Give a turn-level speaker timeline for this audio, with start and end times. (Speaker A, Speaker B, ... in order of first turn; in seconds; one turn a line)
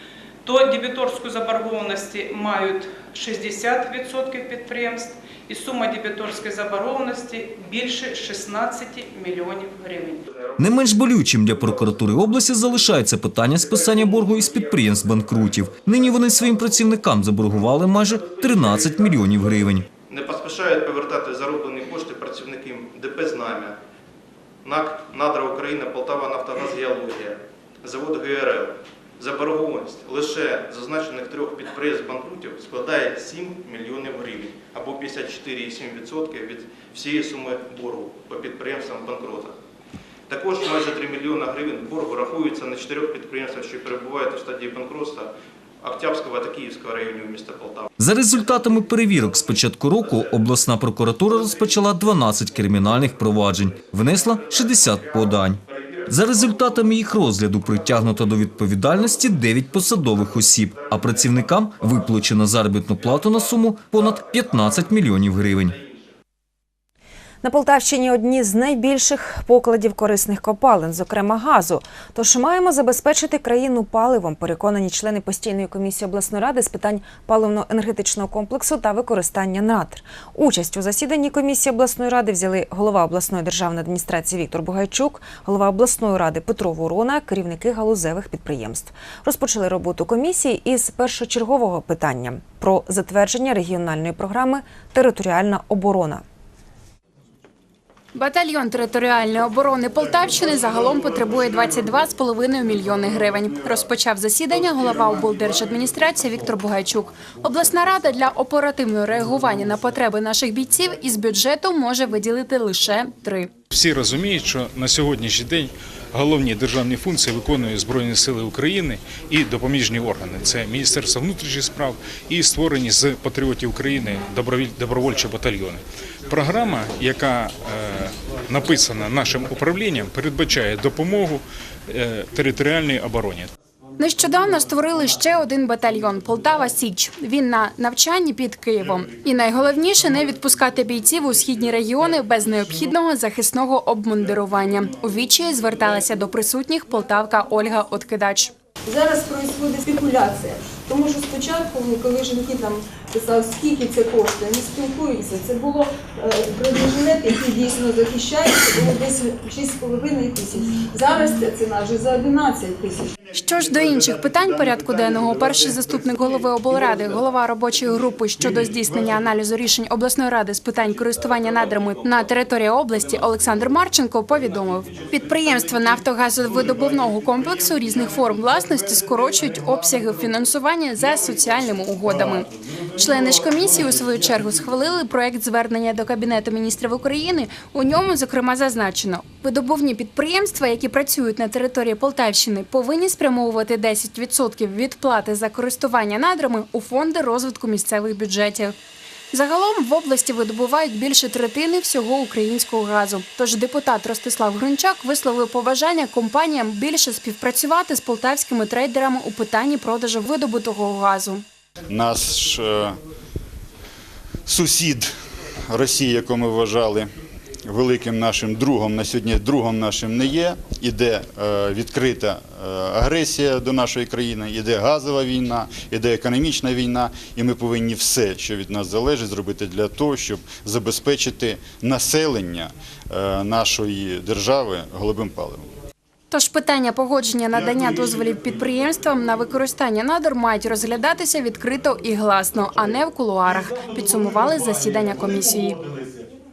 Speaker A: 0.4-10.2
Speaker B: 10.6-19.8
Speaker C: 20.1-23.8
Speaker C: 24.6-39.5
Speaker C: 40.3-45.3
Speaker C: 45.8-47.9
Speaker B: 48.0-65.8
Speaker D: 67.4-96.2
Speaker E: 98.1-113.5
Speaker F: 113.7-133.5
Speaker E: 134.0-148.5
Speaker G: 148.9-163.1
Speaker E: 163.3-198.7
Speaker E: 199.3-211.4
Speaker H: 211.9-213.0
Speaker H: 214.4-215.1
Speaker H: 215.7-217.1
Speaker H: 217.6-235.7
Speaker E: 236.3-245.8